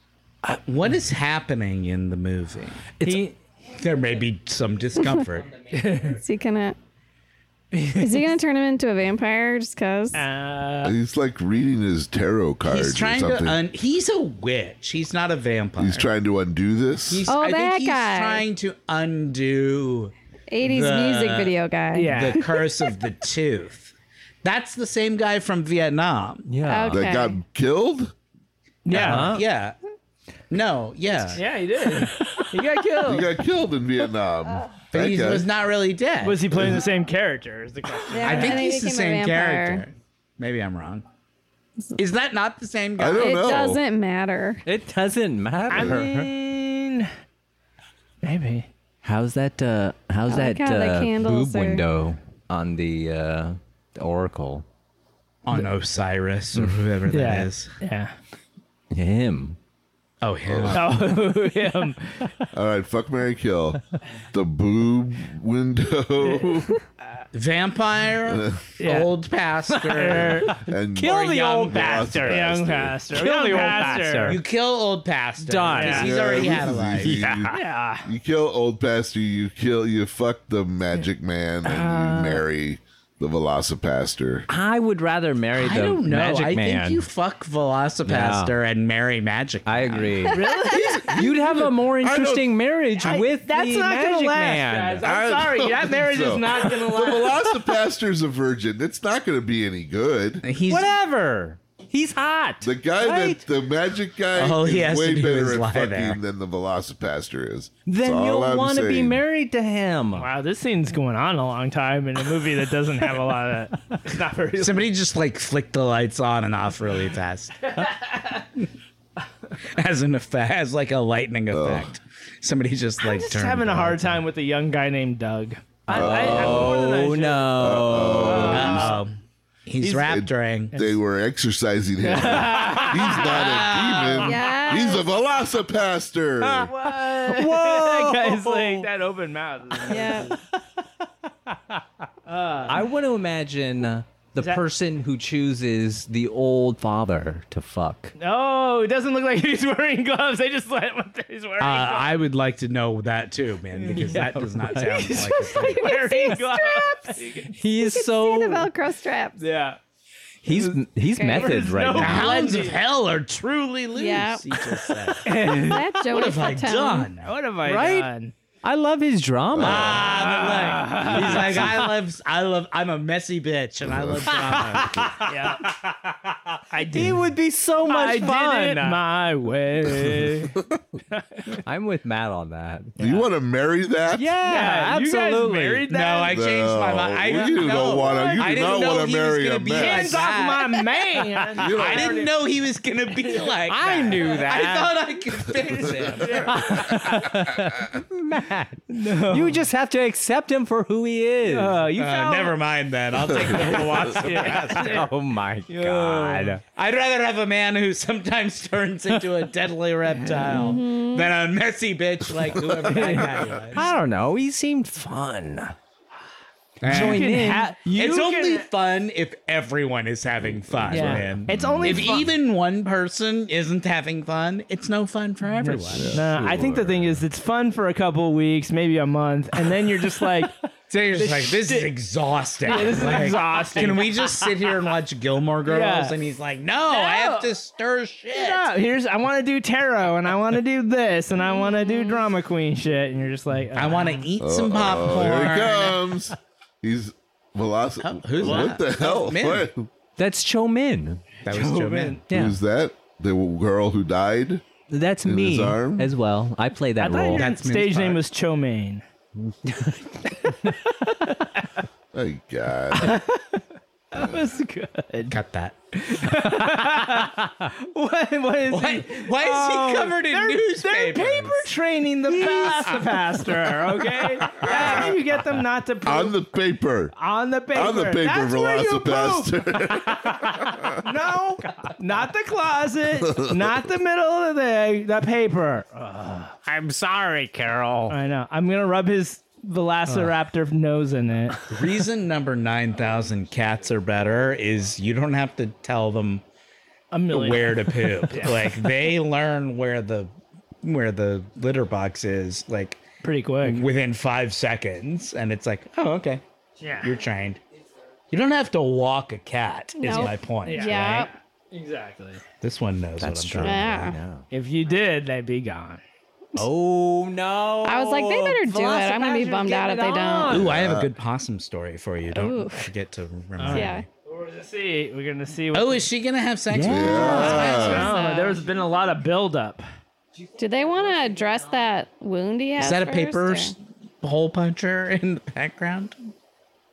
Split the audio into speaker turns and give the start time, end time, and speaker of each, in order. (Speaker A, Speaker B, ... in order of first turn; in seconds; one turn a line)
Speaker A: 0.4-5.7
Speaker B: 3.0-3.3
Speaker B: 5.7-6.2
Speaker C: 6.1-6.8
Speaker B: 7.7-8.3
Speaker C: 7.9-10.2
Speaker B: 10.1-10.9
Speaker D: 10.8-13.6
Speaker A: 12.6-16.1
Speaker D: 15.8-17.3
Speaker A: 17.1-21.6
Speaker C: 17.2-18.4
Speaker C: 20.5-22.6
Speaker B: 21.9-22.5
Speaker A: 22.1-26.6
Speaker E: 26.5-27.0
Speaker C: 26.6-27.4
Speaker D: 26.9-28.1
Speaker B: 28.8-29.3
Speaker A: 28.9-29.8
Speaker E: 28.9-29.4
Speaker A: 30.5-31.4
Speaker B: 31.3-33.3
Speaker E: 32.0-32.5
Speaker D: 33.0-35.5
Speaker A: 34.9-36.4
Speaker B: 36.2-38.7
Speaker D: 36.5-36.8
Speaker C: 38.1-39.8
Speaker A: 38.2-41.0
Speaker A: 42.0-43.5
Speaker D: 43.0-43.8
Speaker C: 43.1-44.6
Speaker E: 44.6-46.3
Speaker B: 45.7-47.1
Speaker D: 45.7-46.0
Speaker B: 48.2-48.7
Speaker E: 49.0-54.6
Speaker C: 50.3-51.8
Speaker A: 55.4-57.7
Speaker B: 57.1-58.1
Speaker E: 58.9-59.6
Speaker A: 60.2-61.0
Speaker D: 60.4-61.0
Speaker B: 60.7-62.3
Speaker D: 62.5-63.8
Speaker D: 64.3-66.8
Speaker A: 67.3-72.3
Speaker D: 68.2-68.6
Speaker B: 68.8-69.1
Speaker E: 69.7-72.5
Speaker B: 69.8-70.6
Speaker D: 70.6-73.0
Speaker B: 72.2-74.4
Speaker E: 73.1-74.4
Speaker A: 74.2-77.2
Speaker E: 75.4-76.5
Speaker B: 75.7-76.1
Speaker D: 75.9-84.5
Speaker E: 77.0-77.5
Speaker B: 77.4-78.1
Speaker E: 81.6-82.4
Speaker E: 84.5-87.0
Speaker A: 85.6-90.3
Speaker E: 88.0-88.5
Speaker E: 89.7-95.1
Speaker B: 90.3-91.1
Speaker D: 90.7-92.5
Speaker B: 93.0-97.6
Speaker D: 95.0-100.4
Speaker A: 100.4-100.9
Speaker E: 100.7-103.4
Speaker D: 102.6-109.2
Speaker A: 104.3-106.2
Speaker E: 107.8-110.3
Speaker B: 110.2-114.9
Speaker A: 114.6-117.7
Speaker B: 117.7-118.5
Speaker A: 119.7-124.2
Speaker D: 121.5-121.9
Speaker B: 123.0-129.0
Speaker E: 125.9-128.8
Speaker D: 125.9-126.8
Speaker D: 127.5-129.0
Speaker A: 128.5-130.8
Speaker B: 129.8-130.2
Speaker D: 129.9-136.7
Speaker B: 130.7-131.0
Speaker B: 132.0-134.1
Speaker A: 133.0-134.3
Speaker C: 134.1-135.1
Speaker B: 136.4-140.4
Speaker E: 136.8-138.9
Speaker C: 139.9-140.3
Speaker B: 142.3-142.8
Speaker E: 142.7-148.1
Speaker B: 148.2-152.1
Speaker A: 151.6-156.0
Speaker B: 153.7-157.6
Speaker E: 153.9-154.9
Speaker C: 155.3-157.2
Speaker E: 157.5-158.7
Speaker C: 157.8-159.4
Speaker B: 159.4-159.8
Speaker E: 160.4-162.4
Speaker B: 160.5-162.8
Speaker C: 161.1-161.6
Speaker A: 161.9-167.3
Speaker C: 163.9-164.5
Speaker B: 165.2-165.9
Speaker C: 165.3-167.1
Speaker B: 167.2-168.3
Speaker E: 167.6-168.1
Speaker E: 168.6-170.3
Speaker D: 169.5-170.1
Speaker A: 169.6-175.2
Speaker B: 170.0-171.7
Speaker E: 171.0-171.9
Speaker D: 173.8-175.1
Speaker E: 174.3-175.9
Speaker B: 175.2-175.7
Speaker B: 176.7-177.3
Speaker E: 176.9-179.0
Speaker B: 177.8-181.6
Speaker E: 181.6-183.0
Speaker D: 183.0-184.3
Speaker E: 184.1-185.9
Speaker B: 184.4-186.4
Speaker A: 185.9-190.8
Speaker D: 186.3-190.3
Speaker B: 187.8-188.7
Speaker B: 189.7-192.3
Speaker D: 191.6-192.2
Speaker A: 191.6-196.7
Speaker E: 193.7-195.0
Speaker B: 196.2-197.0
Speaker E: 196.3-202.0
Speaker B: 198.9-199.6
Speaker B: 201.4-202.5
Speaker A: 202.0-205.1
Speaker B: 203.6-205.1
Speaker E: 203.7-206.6
Speaker B: 205.7-206.6
Speaker A: 206.7-213.9
Speaker C: 210.5-211.3
Speaker B: 212.8-213.4
Speaker E: 213.7-215.7
Speaker A: 216.8-217.3
Speaker E: 216.8-217.7
Speaker B: 216.9-218.7
Speaker A: 217.8-226.2
Speaker D: 220.4-222.2
Speaker B: 220.9-222.3
Speaker B: 225.6-230.5
Speaker D: 225.9-226.8
Speaker E: 226.4-226.8
Speaker E: 230.2-230.5
Speaker A: 230.9-238.7
Speaker B: 231.1-231.9
Speaker B: 232.6-234.2
Speaker E: 232.8-234.5
Speaker B: 235.7-236.2
Speaker B: 236.9-237.5
Speaker B: 238.3-244.3
Speaker C: 241.5-242.3
Speaker A: 243.7-246.0
Speaker D: 244.4-249.8
Speaker A: 248.0-249.7
Speaker B: 248.4-248.7
Speaker E: 250.2-251.2
Speaker A: 251.4-252.2
Speaker B: 251.5-252.2
Speaker E: 252.3-252.6
Speaker D: 252.3-254.6
Speaker E: 254.9-257.4
Speaker D: 255.2-256.1
Speaker B: 257.0-259.0
Speaker A: 257.3-258.2
Speaker E: 259.6-260.7
Speaker B: 260.4-260.7
Speaker D: 262.1-263.2
Speaker B: 262.9-263.6
Speaker B: 264.1-265.4
Speaker A: 265.3-265.8
Speaker B: 265.9-276.4
Speaker A: 268.7-271.7
Speaker E: 272.4-273.0
Speaker D: 274.6-275.1
Speaker D: 276.0-277.1
Speaker B: 277.1-279.5
Speaker D: 277.7-281.0
Speaker B: 280.9-286.6
Speaker D: 283.2-283.7
Speaker E: 286.6-288.1
Speaker B: 288.1-291.6
Speaker A: 291.7-296.4
Speaker B: 297.1-298.8
Speaker A: 297.3-300.3
Speaker A: 300.8-303.0
Speaker B: 303.2-303.9
Speaker A: 303.6-306.4
Speaker B: 306.8-307.1
Speaker A: 307.0-307.6
Speaker A: 308.3-311.2
Speaker C: 310.0-311.3
Speaker B: 310.1-312.4
Speaker A: 312.6-314.1
Speaker E: 313.2-314.4
Speaker C: 313.6-314.2
Speaker B: 314.5-316.0
Speaker E: 316.5-320.6
Speaker C: 317.8-320.6
Speaker A: 320.5-324.1
Speaker D: 320.5-321.1
Speaker C: 322.3-322.9
Speaker B: 323.6-326.1
Speaker C: 323.7-324.1
Speaker A: 325.7-327.9
Speaker E: 326.7-327.8
Speaker D: 326.8-328.1
Speaker C: 327.1-328.6
Speaker B: 327.2-329.8
Speaker C: 330.6-333.7
Speaker A: 332.8-336.3